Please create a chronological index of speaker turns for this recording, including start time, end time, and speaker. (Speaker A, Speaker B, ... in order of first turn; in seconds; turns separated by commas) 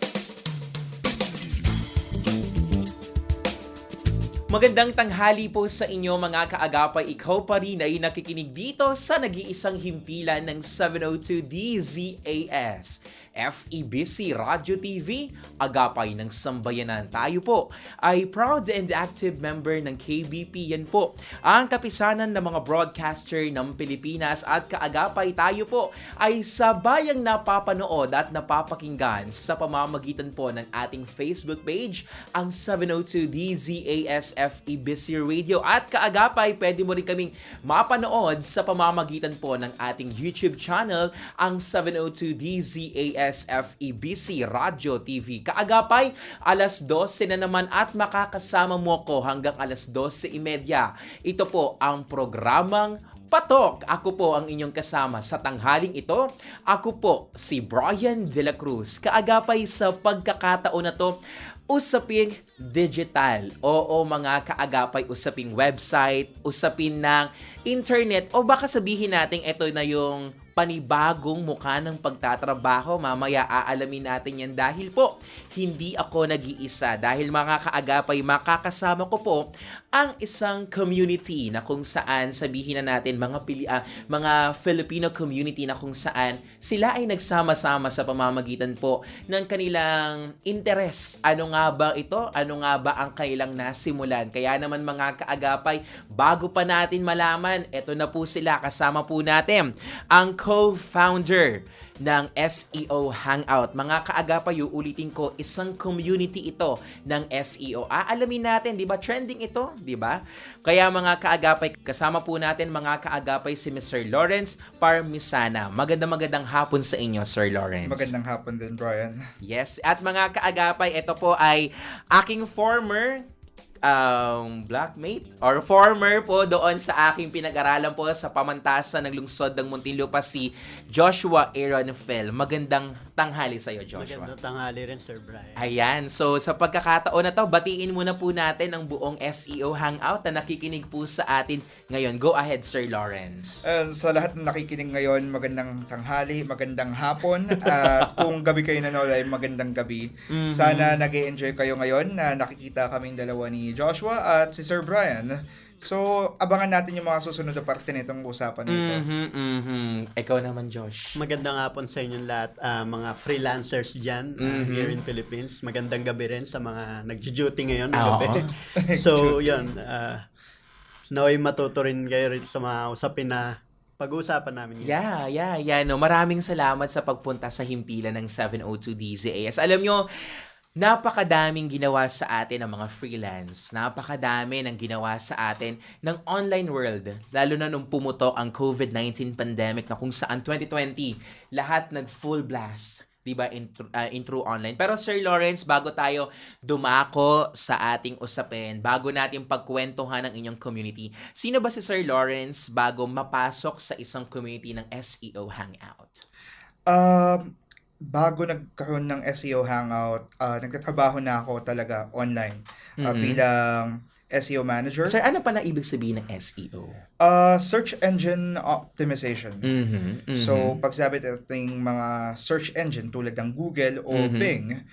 Speaker A: 4.5-61.1, Speaker A: 61.7-79.4, Speaker A: 79.9-118.1, Speaker B: 117.8-119.2, Speaker A: 119.4-123.2, Speaker A: 123.8-134.3, Speaker C: 133.9-135.7, Speaker A: 135.6-143.7, Speaker B: 143.6-155.3, Speaker A: 147.6-148.2, Speaker A: 150.3-151.0, Speaker B: 155.8-159.0, Speaker A: 158.7-161.1, Speaker C: 161.2-170.2, Speaker A: 164.4-165.0, Speaker A: 167.9-168.5, Speaker B: 168.8-169.6, Speaker C: 171.1-174.9, Speaker A: 174.8-180.0, Speaker A: 180.8-206.2, Speaker B: 206.9-207.5, Speaker B: 208.1-215.2, Speaker A: 213.0-213.4, Speaker A: 215.0-217.0, Speaker B: 217.2-219.7, Speaker A: 219.7-220.8, Speaker B: 220.3-224.7, Speaker A: 224.1-224.6